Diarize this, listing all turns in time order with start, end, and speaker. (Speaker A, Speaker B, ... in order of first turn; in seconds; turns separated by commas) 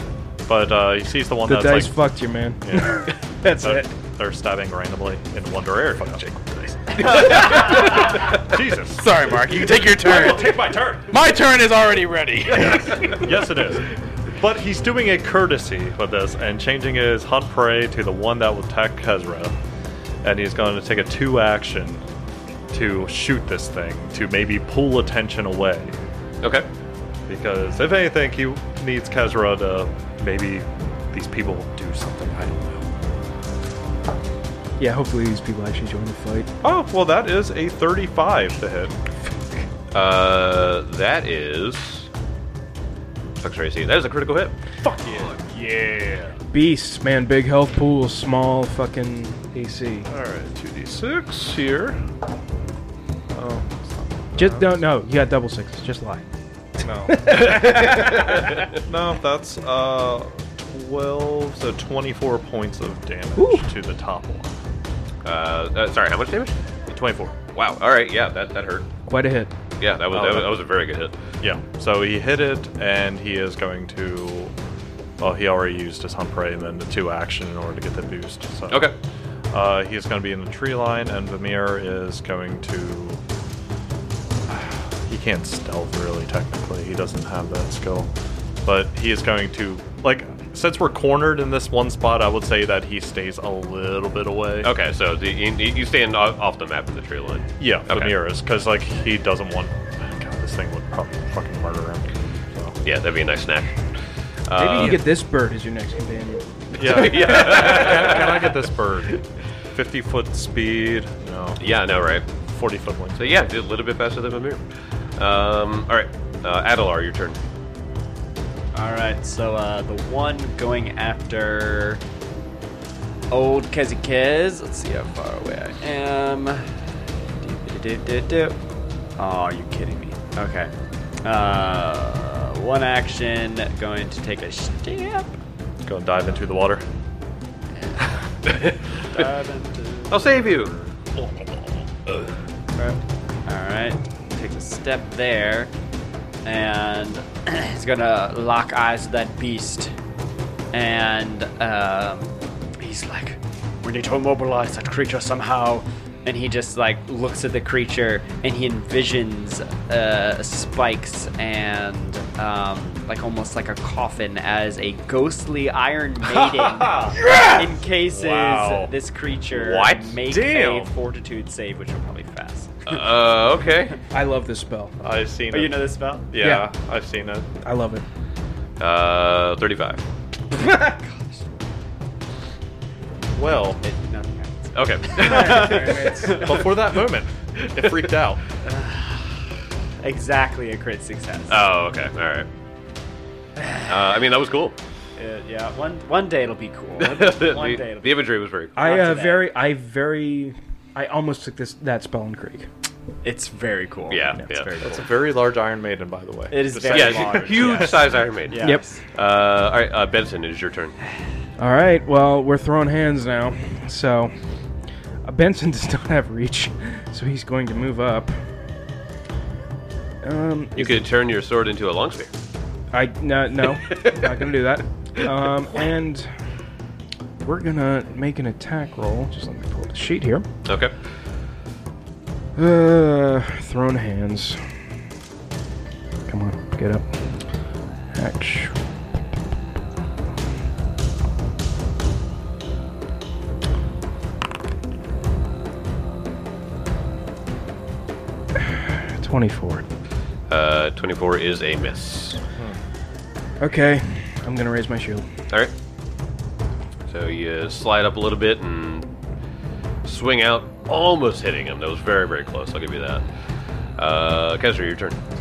Speaker A: 0.4-1.9, Speaker B: 1.4-3.9, Speaker A: 2.6-3.1, Speaker A: 3.6-6.3, Speaker C: 6.2-8.3, Speaker D: 7.1-7.8, Speaker A: 7.1-11.1, Speaker C: 8.9-13.2, Speaker A: 12.6-19.5, Speaker D: 12.6-13.2, Speaker A: 20.2-22.0, Speaker A: 22.7-25.9, Speaker D: 26.4-26.7, Speaker A: 27.3-32.9, Speaker B: 34.8-36.5, Speaker A: 36.6-39.0, Speaker D: 39.9-42.1, Speaker D: 43.4-44.5, Speaker A: 44.8-46.4, Speaker B: 46.5-50.1, Speaker A: 50.0-52.1, Speaker A: 53.3-54.8, Speaker B: 54.4-56.2, Speaker A: 56.8-58.0, Speaker B: 57.0-58.7, Speaker D: 57.4-58.6, Speaker A: 58.7-64.5, Speaker B: 63.4-63.6, Speaker D: 65.2-66.5, Speaker A: 66.9-67.4, Speaker D: 67.5-68.9, Speaker B: 69.1-69.5, Speaker D: 69.8-71.2, Speaker A: 70.1-70.5, Speaker A: 71.4-74.5, Speaker A: 75.2-78.9, Speaker D: 78.7-79.0, Speaker A: 79.5-83.2, Speaker A: 84.5-88.1, Speaker A: 88.6-94.7, Speaker D: 94.6-98.1, Speaker A: 97.6-102.8, Speaker D: 102.8-103.8, Speaker D: 104.5-105.1, Speaker B: 104.5-106.5, Speaker D: 106.8-108.5, Speaker A: 106.8-111.6, Speaker D: 111.6-112.2, Speaker A: 112.4-113.4, Speaker D: 113.2-114.6, Speaker D: 115.2-117.4, Speaker E: 118.7-122.0, Speaker E: 123.3-126.7, Speaker E: 127.4-128.6, Speaker E: 129.2-130.7, Speaker E: 131.2-135.4, Speaker A: 135.8-136.8, Speaker D: 138.5-138.8, Speaker E: 139.1-140.5, Speaker D: 140.1-140.7, Speaker E: 142.8-145.7, Speaker E: 146.4-149.9, Speaker E: 150.7-173.0, Speaker A: 166.4-168.9, Speaker B: 167.3-167.6, Speaker D: 169.5-170.4, Speaker A: 170.3-170.9, Speaker D: 172.8-174.0, Speaker B: 174.1-174.9, Speaker A: 175.0-175.8, Speaker E: 175.5-176.3, Speaker A: 176.3-177.5, Speaker B: 176.4-176.7, Speaker B: 177.6-178.0, Speaker D: 178.8-180.0, Speaker B: 180.6-180.9, Speaker E: 180.6-181.5, Speaker A: 183.3-183.8, Speaker E: 183.8-186.7, Speaker D: 184.7-186.0, Speaker B: 185.2-186.5, Speaker A: 186.3-188.4, Speaker D: 187.6-188.1, Speaker E: 188.6-189.3, Speaker E: 190.0-191.7, Speaker D: 191.5-192.5, Speaker E: 193.6-194.0, Speaker D: 193.9-194.8, Speaker E: 195.2-199.5, Speaker D: 197.0-198.8, Speaker B: 198.8-202.7, Speaker E: 203.2-205.1, Speaker D: 204.1-204.9, Speaker A: 204.8-208.0, Speaker E: 206.5-209.0, Speaker D: 206.9-210.9, Speaker B: 211.6-214.3, Speaker B: 215.2-218.3, Speaker B: 220.2-221.1, Speaker D: 220.7-222.3, Speaker B: 222.9-226.3, Speaker D: 223.8-224.5, Speaker B: 227.4-230.4, Speaker D: 230.7-230.9, Speaker B: 232.6-234.6, Speaker B: 236.3-237.1, Speaker B: 238.1-238.8, Speaker B: 248.7-249.8, Speaker D: 250.5-252.4, Speaker B: 253.6-255.3, Speaker D: 257.1-259.1, Speaker D: 260.0-263.2, Speaker D: 264.0-265.2